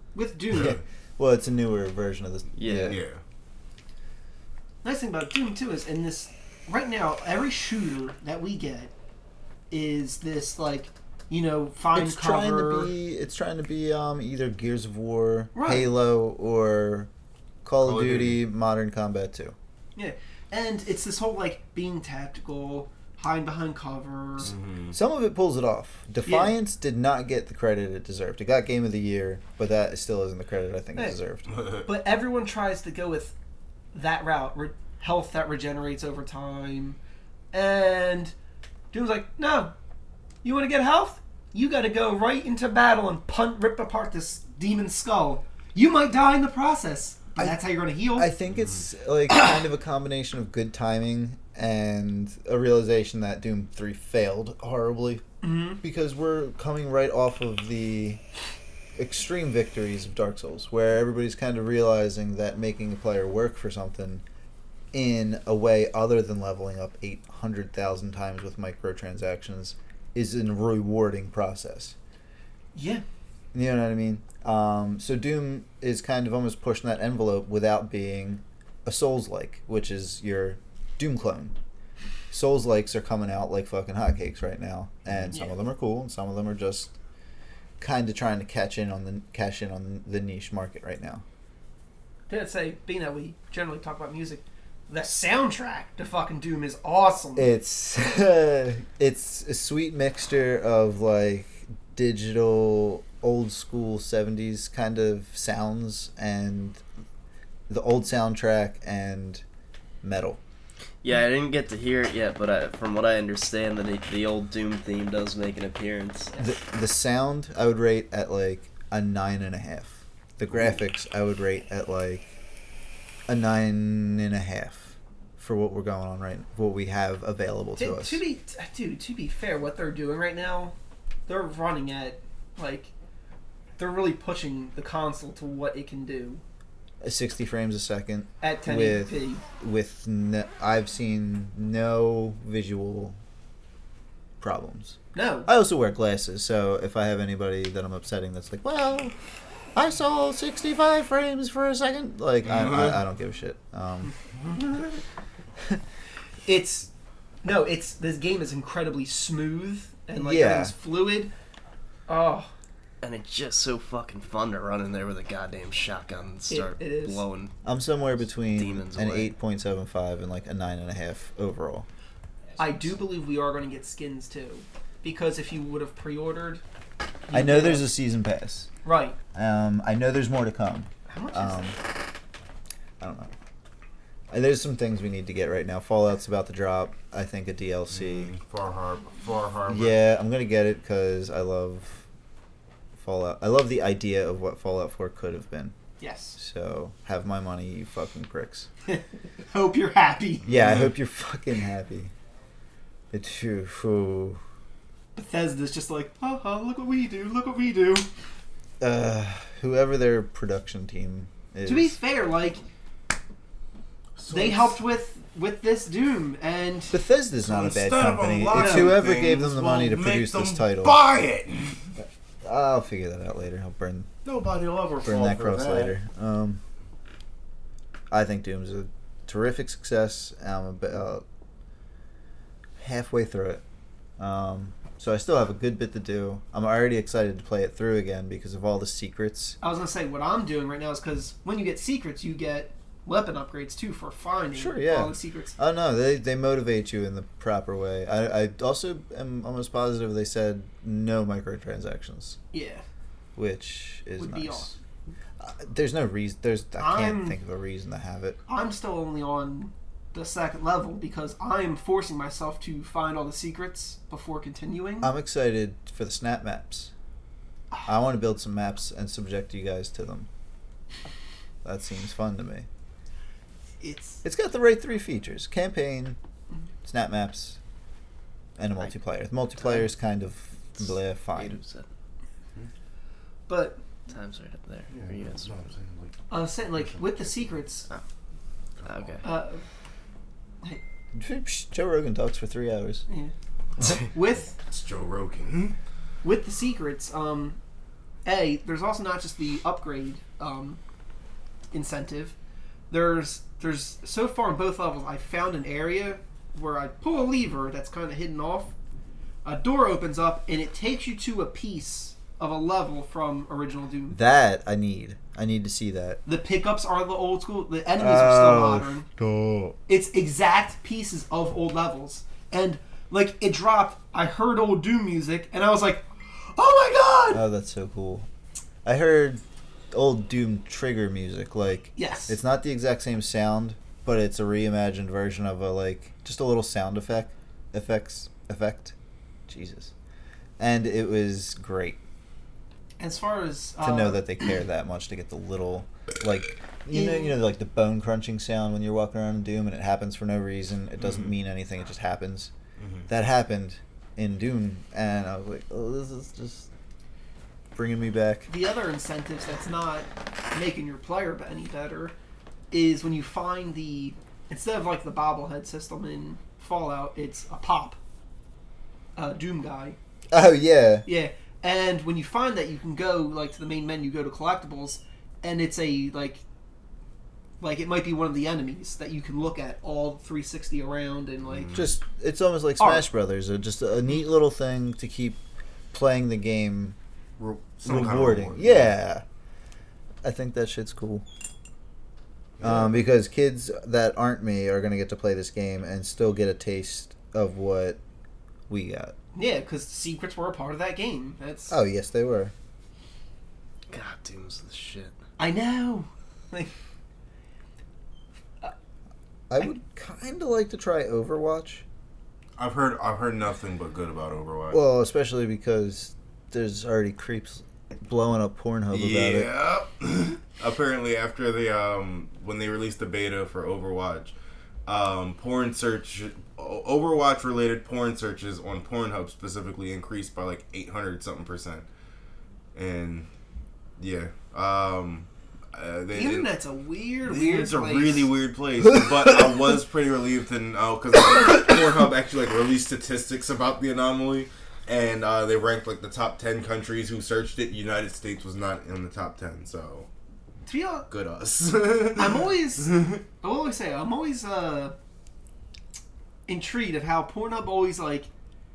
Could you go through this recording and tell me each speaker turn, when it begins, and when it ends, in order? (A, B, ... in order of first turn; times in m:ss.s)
0:00.1-0:00.8 A
0:00.6-0:03.0 B
0:02.6-0:03.0 C
0:02.9-0:03.2 D
0:04.8-0:08.9 A
0:09.7-0:12.9 A
0:11.9-0:17.1 B
0:15.5-0:15.9 A
0:17.6-0:19.5 B
0:17.8-0:18.4 D
0:20.0-0:24.5 A
0:24.4-0:24.9 D
0:24.9-0:31.4 B
0:26.2-0:26.5 A
0:31.5-0:31.8 D
0:31.8-0:33.3 A
0:33.9-0:37.0 A
0:37.5-0:38.3 A
0:38.9-0:39.7 A
0:40.4-0:48.3 A
0:48.1-0:55.2 B
0:48.5-0:48.8 D
0:55.4-0:55.8 A
0:55.8-0:58.2 B
0:59.0-1:04.2 B
1:04.9-1:11.9 B
1:12.7-1:13.0 A
1:13.5-1:21.6 B
1:22.3-1:26.9 B
1:25.3-1:25.6 A
1:27.8-1:31.2 B
1:32.3-1:37.5 A
1:37.4-1:46.8 B
1:47.7-1:49.4 B
1:50.0-1:50.4 B
1:51.0-1:56.3 C
1:56.4-2:02.3 B
2:03.3-2:08.2 B
2:07.8-2:10.7 A
2:11.3-2:12.9 A
2:13.8-2:16.4 A
2:17.0-2:23.2 B
2:18.4-2:19.4 A
2:24.4-2:29.1 B
2:25.1-2:25.5 A
2:29.7-2:34.1 B
2:32.4-2:33.0 D
2:36.4-2:36.9 A
2:37.4-2:41.3 A
2:40.2-2:40.7 B
2:42.1-2:42.5 A
2:43.0-2:47.5 C
2:46.5-2:47.2 A
2:47.6-2:51.9 B
2:48.5-2:49.3 C
2:52.6-2:56.6 A
2:57.3-2:57.9 A
2:57.3-2:58.7 B
2:58.8-2:59.2 A
2:59.3-3:01.8 B
3:01.1-3:01.7 A
3:03.0-3:03.3 B
3:04.3-3:08.3 B
3:07.9-3:10.0 D
3:09.7-3:12.0 B
3:13.0-3:15.8 B
3:16.0-3:16.4 A
3:16.4-3:18.7 B
3:18.9-3:20.5 A
3:20.5-3:22.1 B
3:20.5-3:20.9 D
3:23.1-3:24.4 B
3:25.1-3:28.1 A
3:28.8-3:32.0 B
3:31.6-3:32.6 A
3:34.2-3:34.8 D
3:34.3-3:37.0 A
3:36.9-3:41.0 B
3:37.4-3:41.9 D
3:38.5-3:39.0 A
3:42.0-3:44.1 B
3:44.2-3:45.9 D
3:45.0-3:46.6 B
3:48.1-3:51.2 B
3:52.8-3:53.6 B
3:54.2-3:59.6 B
3:59.6-4:05.6 A
4:04.5-4:12.4 B
4:12.5-4:12.8 A
4:13.4-4:14.8 B
4:14.2-4:14.7 A
4:15.4-4:18.4 B
4:16.8-4:17.4 A
4:18.5-4:25.1 A
4:25.0-4:26.9 B
4:27.8-4:30.3 B
4:31.6-4:32.7 B
4:33.8-4:34.2 A
4:34.2-4:36.2 B
4:36.8-4:37.6 B
4:38.6-4:41.6 B
4:40.8-4:41.9 C
4:43.5-4:43.8 A
4:44.1-4:45.5 C
4:44.9-4:46.2 D
4:46.3-4:47.9 A
4:46.7-4:47.4 D
4:48.8-4:49.1 D
4:48.8-4:49.3 C
4:49.2-4:49.6 A
4:51.1-4:53.0 B
4:53.1-4:54.5 A
4:54.6-4:55.8 D
4:56.2-4:57.6 A
4:58.2-5:00.8 A
5:01.7-5:02.3 A
5:02.9-5:08.7 A
5:09.4-5:14.2 A
5:14.1-5:16.2 B
5:16.2-5:19.0 A
5:18.0-5:19.8 B
5:19.9-5:27.4 A
5:27.3-5:28.3 B
5:28.8-5:38.9 B
5:32.0-5:32.4 A
5:39.5-5:39.9 B
5:40.6-5:42.0 B
5:43.0-5:44.2 A
5:43.8-5:52.5 B
5:46.9-5:47.4 A
5:51.0-5:51.3 D
5:52.8-5:53.1 D
5:53.1-5:56.7 B
5:57.7-5:58.5 B
5:58.5-6:02.2 A
6:02.7-6:08.0 A
6:09.2-6:10.0 A
6:10.3-6:11.0 B
6:11.0-6:16.4 A
6:17.6-6:21.8 A
6:21.4-6:21.8 D
6:21.7-6:25.4 B
6:22.8-6:23.0 A
6:25.9-6:27.0 B
6:27.4-6:28.9 D
6:27.8-6:29.2 B
6:30.2-6:31.2 B
6:32.6-6:32.9 D
6:32.6-6:38.0 B
6:38.7-6:39.1 B
6:39.3-6:41.8 A
6:41.7-6:42.5 B
6:43.9-6:45.1 C
6:45.4-6:46.7 A
6:49.5-6:51.8 B
6:52.6-6:54.8 D
6:54.7-6:59.5 B
6:58.9-7:04.3 D
7:04.8-7:11.8 D
7:12.7-7:13.3 D
7:14.0-7:16.5 D
7:16.1-7:18.3 A
7:17.2-7:30.1 D
7:30.6-7:31.1 A
7:31.1-7:33.2 D
7:32.2-7:34.9 A
7:36.5-7:38.3 A